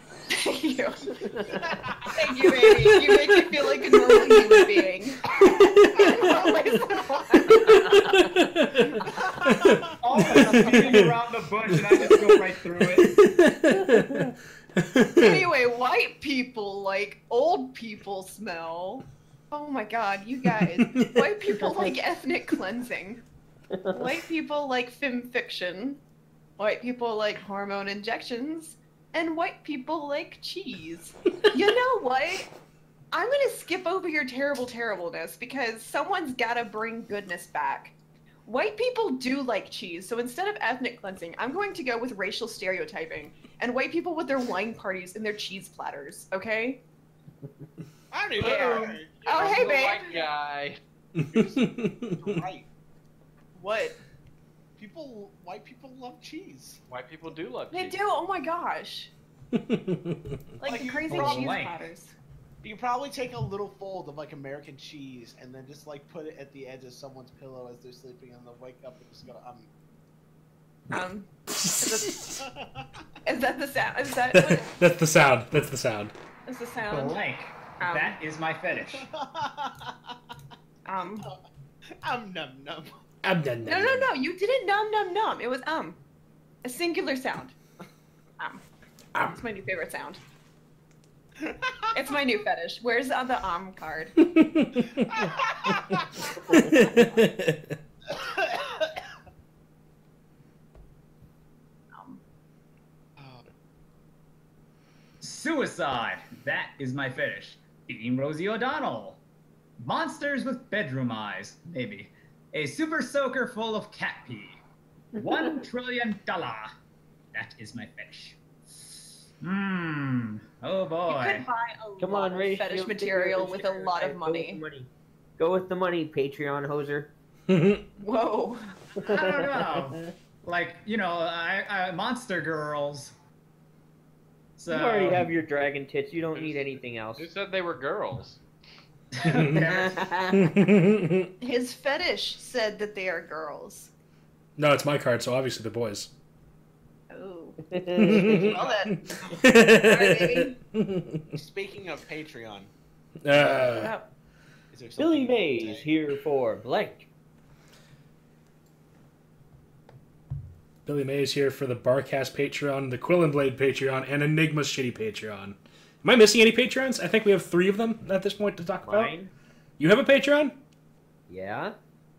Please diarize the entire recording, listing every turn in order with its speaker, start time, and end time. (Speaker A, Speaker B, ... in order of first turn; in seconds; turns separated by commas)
Speaker A: 0.3-1.1, Speaker B: 1.2-1.7, Speaker C: 1.5-3.0, Speaker A: 2.1-8.1, Speaker D: 4.1-4.7, Speaker D: 5.8-6.5, Speaker C: 6.0-6.8, Speaker D: 7.6-12.4, Speaker C: 8.9-10.0, Speaker E: 10.0-13.2, Speaker A: 10.2-11.0, Speaker D: 13.0-15.4, Speaker B: 13.7-14.3, Speaker A: 15.2-23.2, Speaker D: 20.6-21.3, Speaker B: 21.6-21.9, Speaker B: 23.7-24.1, Speaker A: 23.9-26.0, Speaker A: 26.6-32.5, Speaker A: 33.1-37.9, Speaker A: 38.5-46.8, Speaker C: 48.1-50.3, Speaker A: 48.4-50.2, Speaker F: 48.4-48.8, Speaker F: 49.3-50.8, Speaker D: 51.1-52.4, Speaker C: 51.3-52.6, Speaker A: 53.5-53.9, Speaker C: 54.8-56.8, Speaker F: 56.9-58.0, Speaker A: 57.7-59.1, Speaker D: 59.5-60.4, Speaker A: 60.6-62.1, Speaker C: 60.6-61.6, Speaker E: 61.2-61.8, Speaker C: 62.6-69.7, Speaker A: 70.9-72.4, Speaker D: 71.5-72.3, Speaker C: 72.4-72.8, Speaker A: 73.2-74.7, Speaker D: 74.3-76.1, Speaker A: 76.5-77.2, Speaker E: 76.9-79.0, Speaker A: 77.8-78.2, Speaker C: 78.8-80.1, Speaker A: 80.8-81.3, Speaker C: 82.0-82.9, Speaker D: 83.2-84.1, Speaker A: 83.7-86.0, Speaker A: 86.6-87.5, Speaker A: 89.2-90.2, Speaker C: 91.4-91.7, Speaker A: 91.9-94.2, Speaker D: 94.2-97.8, Speaker C: 95.1-96.3, Speaker C: 98.1-98.9, Speaker A: 101.9-102.2, Speaker C: 103.2-103.4, Speaker E: 105.2-109.2, Speaker E: 109.8-114.6, Speaker E: 115.2-116.7, Speaker B: 115.2-115.5, Speaker E: 117.3-118.4, Speaker E: 119.4-121.5, Speaker A: 121.0-124.6, Speaker B: 122.0-127.1, Speaker D: 127.5-127.8, Speaker A: 128.0-128.7, Speaker E: 129.0-133.1, Speaker B: 129.0-129.9, Speaker E: 134.6-135.3, Speaker B: 134.7-137.3, Speaker F: 136.3-138.4, Speaker E: 139.1-140.2, Speaker D: 139.2-139.7, Speaker B: 139.5-140.7, Speaker D: 140.3-141.3, Speaker A: 141.4-143.9, Speaker D: 144.6-146.1, Speaker A: 147.1-147.6, Speaker B: 147.7-148.6, Speaker D: 147.9-151.3, Speaker A: 148.2-150.6, Speaker C: 148.3-149.3, Speaker C: 151.3-152.7, Speaker D: 153.2-153.9, Speaker A: 153.4-154.1, Speaker C: 154.7-155.9, Speaker B: 155.0-157.1, Speaker D: 160.8-169.1, Speaker B: 168.8-169.3, Speaker D: 169.8-170.6, Speaker B: 171.3-171.8